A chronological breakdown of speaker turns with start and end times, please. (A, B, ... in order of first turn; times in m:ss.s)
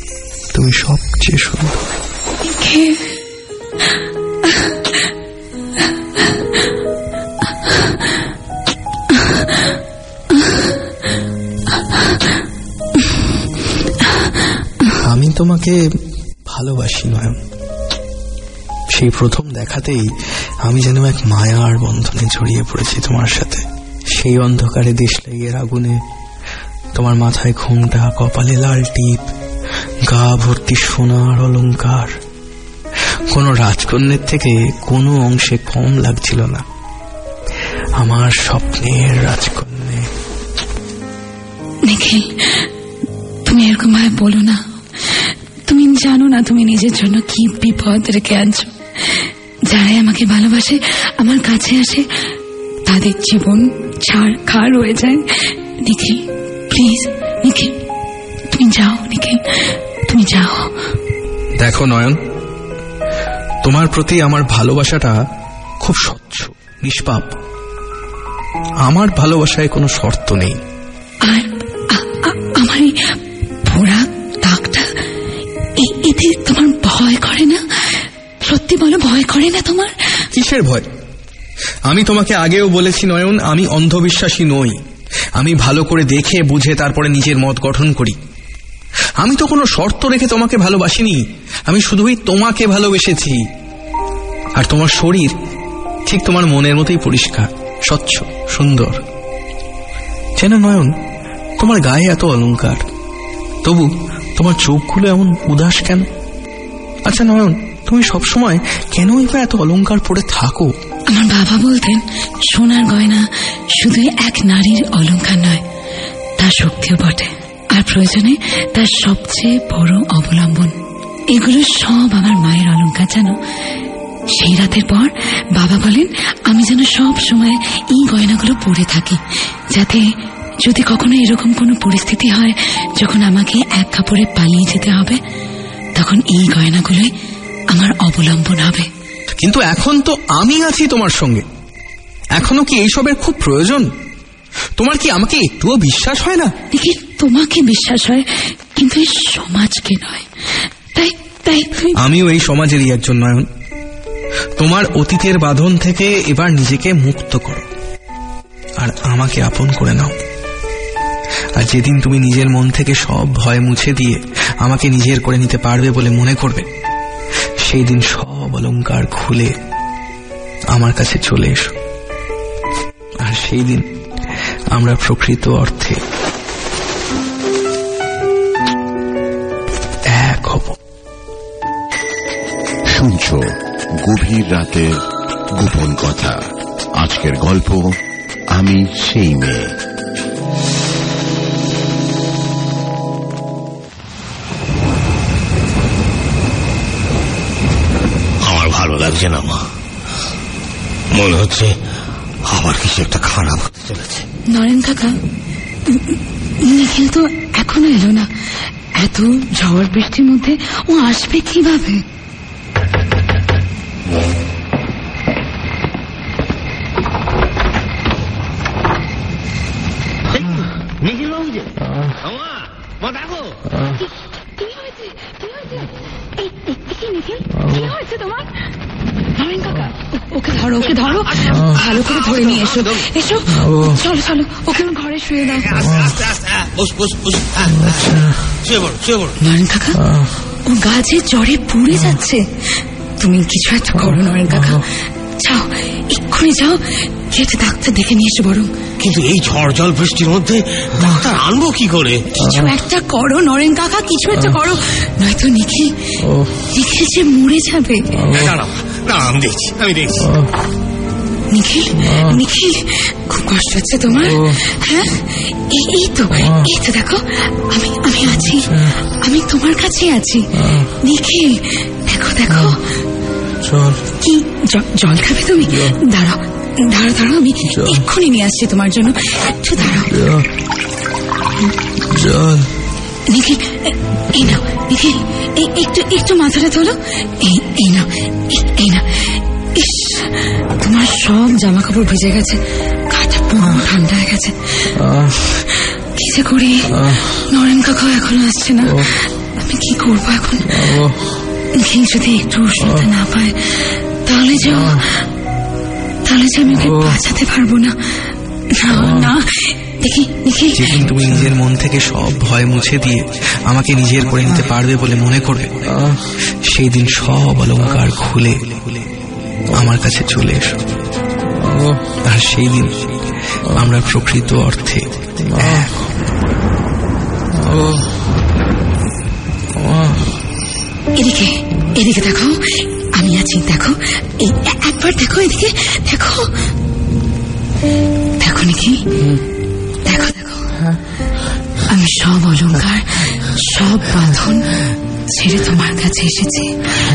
0:00.5-0:01.9 A
0:02.5-0:03.0 B
0:14.9-0:15.9 A
0:16.4-0:17.4 A
0:18.9-0:26.0 A
0:26.9-0:29.3 A
0:30.0-0:32.2 A
0:33.3-0:36.6 A
0:38.0-0:40.1 A
0:41.8-0:42.7 B
0:43.4-0:52.1 B
0:52.8-0:57.8 B
0:58.5-1:00.7 B
1:01.6-1:02.2 A
1:03.6-1:05.2 A
1:05.8-1:07.4 A
1:08.8-1:10.6 A
1:11.2-1:14.9 B
1:15.8-1:19.9 B
1:20.3-1:20.9 A
1:21.9-1:24.8 A
1:25.4-1:28.2 A
1:29.2-1:33.4 A
1:34.6-1:35.4 A
1:36.1-1:39.0 A
1:40.4-1:40.9 A
1:41.6-1:42.8 A
1:43.6-1:46.1 A
1:47.0-1:50.8 A
1:51.1-1:55.6 B
1:56.4-2:00.8 B
2:01.3-2:03.4 B
2:04.3-2:09.2 B
2:09.7-2:10.0 B
2:10.6-2:15.2 B
2:15.9-2:17.1 B
2:17.7-2:18.9 B
2:19.3-2:21.4 A
2:22.3-2:23.9 A
2:24.8-2:26.5 A
2:26.7-2:30.3 B
2:30.9-2:32.0 B
2:31.9-2:33.5 A
2:34.6-2:37.7 A
2:38.8-2:40.1 A
2:41.6-2:46.7 A
2:47.6-2:49.5 A
2:50.7-2:51.7 A
2:53.2-2:53.9 A
2:54.7-2:56.0 A
3:00.1-3:00.8 A
3:02.9-3:03.5 C
3:04.0-3:05.0 C
3:05.6-3:06.4 C
3:07.0-3:08.0 C
3:08.5-3:09.7 C
3:18.4-3:19.6 D
3:21.1-3:21.8 D
3:22.4-3:24.3 D
3:24.5-3:25.2 B
3:25.9-3:28.3 B
3:28.9-3:32.0 B
3:40.3-3:43.6 D
3:44.6-3:48.5 B
3:49.3-3:55.9 B
3:51.3-3:53.0 D
3:55.7-3:59.4 D
3:59.4-4:00.0 B
4:00.6-4:08.7 B
4:09.0-4:12.2 D
4:12.3-4:18.2 B
4:18.3-4:20.3 D
4:21.5-4:32.8 B
4:22.1-4:22.4 A
4:33.6-4:34.0 A
4:34.2-4:40.2 B
4:37.7-4:38.0 A
4:40.1-4:40.5 A
4:42.0-4:42.7 A
4:43.3-4:54.9 B
4:55.0-4:55.6 A
4:55.7-5:01.0 B
4:56.9-4:57.2 A
5:00.7-5:01.2 A
5:01.7-5:05.2 B
5:06.2-5:08.2 B
5:06.8-5:07.2 A
5:08.7-5:11.0 B
5:08.9-5:09.3 A
5:10.8-5:19.0 A
5:19.7-5:20.8 A
5:21.6-5:23.1 A
5:23.6-5:26.1 A
5:27.5-5:28.1 A
5:29.8-5:30.2 A
5:31.1-5:36.5 B
5:38.4-5:39.2 B
5:40.0-5:40.7 B
5:41.9-5:44.7 B
5:45.3-5:46.8 B